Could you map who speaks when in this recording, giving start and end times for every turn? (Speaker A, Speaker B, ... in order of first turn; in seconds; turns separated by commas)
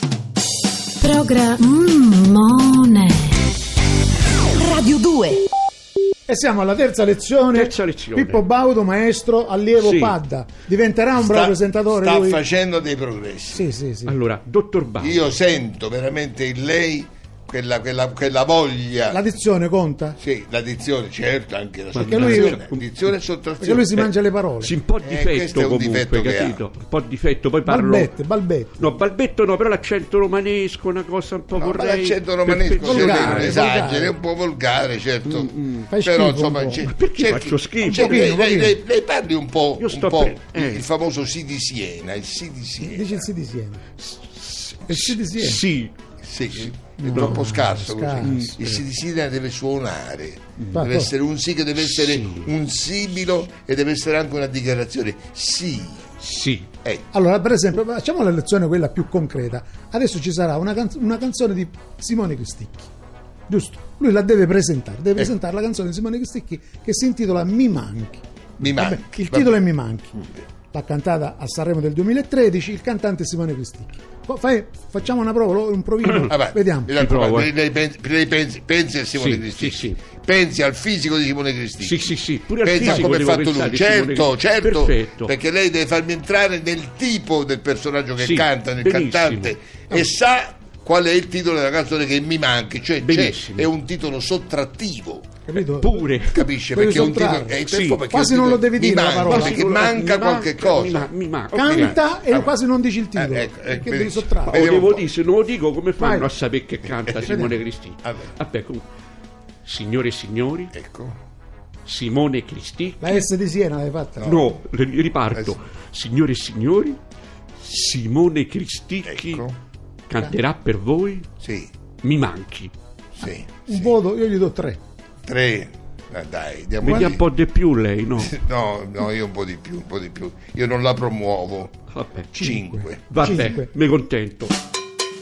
Speaker A: 1.0-3.5, Speaker A: 4.4-5.5, Speaker B: 6.3-12.4, Speaker C: 7.5-8.4, Speaker C: 9.8-10.2, Speaker D: 11.2-13.7, Speaker B: 13.5-14.2, Speaker C: 14.1-15.3, Speaker D: 15.0-19.2, Speaker B: 19.1-20.2, Speaker D: 20.2-23.9, Speaker B: 21.9-22.6, Speaker C: 21.9-23.1, Speaker B: 23.6-24.8, Speaker C: 23.9-28.1, Speaker D: 25.0-26.6, Speaker B: 27.7-28.9, Speaker C: 28.8-33.7, Speaker D: 31.5-43.3, Speaker B: 32.8-34.2, Speaker C: 35.2-35.9, Speaker B: 35.9-36.9, Speaker C: 36.8-38.3, Speaker B: 37.9-38.8, Speaker C: 39.8-40.9, Speaker B: 42.8-43.9, Speaker C: 44.0-45.9, Speaker B: 44.9-45.6, Speaker D: 46.2-56.1, Speaker C: 46.5-47.5, Speaker B: 47.0-48.6, Speaker C: 48.2-48.8, Speaker B: 50.7-51.1, Speaker C: 51.8-52.5, Speaker C: 56.2-56.7, Speaker B: 57.1-62.9, Speaker B: 63.5-70.2, Speaker D: 68.6-69.6, Speaker B: 70.7-76.9, Speaker C: 76.0-76.3, Speaker D: 76.3-95.3, Speaker C: 77.0-77.5, Speaker C: 79.1-80.0, Speaker C: 81.8-85.3, Speaker C: 88.2-89.5, Speaker C: 93.0-93.7, Speaker B: 95.5-99.7, Speaker C: 95.5-96.5, Speaker D: 96.2-102.6, Speaker C: 97.5-98.0, Speaker C: 99.2-102.1, Speaker B: 101.5-104.7, Speaker D: 103.1-105.1, Speaker C: 104.5-108.9, Speaker B: 106.0-106.3, Speaker D: 107.0-107.5, Speaker B: 107.2-107.5, Speaker D: 108.0-108.3, Speaker C: 109.7-110.7, Speaker D: 110.7-111.2, Speaker C: 111.9-113.3, Speaker B: 113.0-114.4, Speaker D: 114.2-114.6, Speaker C: 114.2-117.0, Speaker D: 115.3-115.6, Speaker C: 117.6-119.5, Speaker D: 119.0-119.6, Speaker C: 120.1-121.3, Speaker D: 121.4-121.7, Speaker C: 122.0-122.7, Speaker D: 123.2-124.0, Speaker B: 123.7-124.8, Speaker D: 125.2-127.2, Speaker C: 126.8-128.4, Speaker D: 128.2-131.8, Speaker C: 131.9-132.5, Speaker B: 132.3-133.7, Speaker D: 132.4-133.3, Speaker C: 133.1-134.6